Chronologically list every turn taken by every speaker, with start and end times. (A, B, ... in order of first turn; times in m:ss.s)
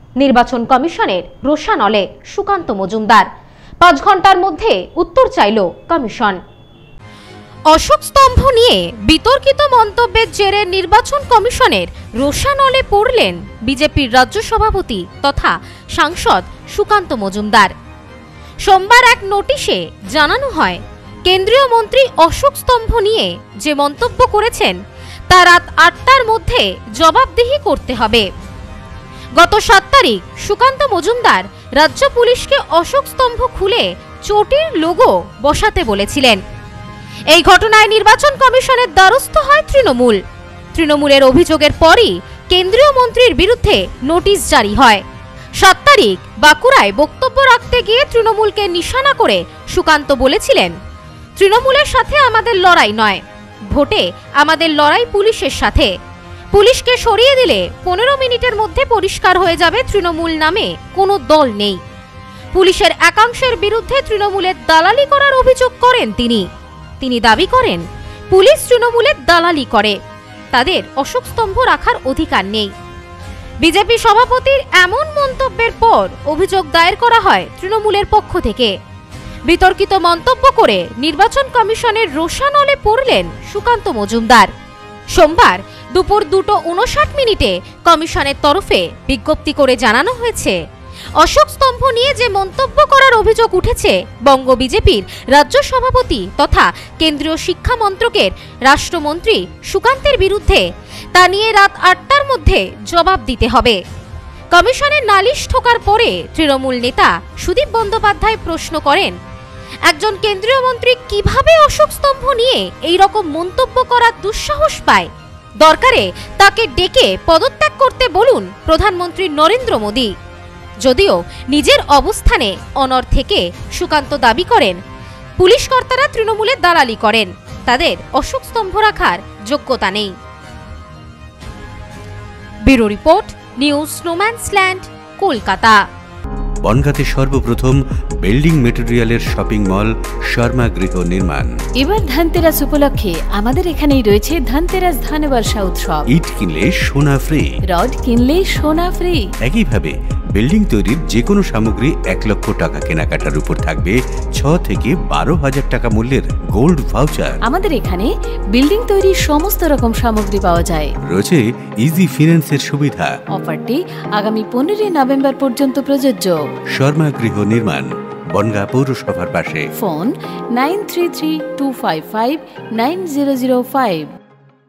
0:00.2-0:03.3 A
0:03.8-0:06.4 A
0:07.7-0:17.7 A
0:18.6-0:24.8 A
0:25.3-0:28.3 A
0:29.4-0:36.4 A
0:37.3-0:40.2 A
0:40.7-0:45.0 A
0:45.6-0:50.7 A
0:51.4-0:55.9 A
0:56.5-1:01.8 A
1:02.5-1:06.4 A
1:07.0-1:10.0 A
1:10.5-1:12.7 A
1:13.6-1:18.7 A
1:19.5-1:24.5 A
1:25.1-1:30.6 A
1:31.2-1:43.8 A
1:44.5-1:49.2 A
1:49.9-1:55.1 A
1:55.6-2:00.1 A
2:00.8-2:04.8 A
2:05.4-2:10.1 A
2:12.7-2:15.8 A
2:16.6-2:21.5 B
2:21.8-2:26.1 C
2:26.1-2:27.5 B
2:27.7-2:29.2 C
2:29.4-2:37.4 B
2:37.5-2:40.9 C
2:41.1-2:43.1 B
2:43.3-2:46.3 C
2:46.8-2:49.7 B
2:49.8-2:54.1 C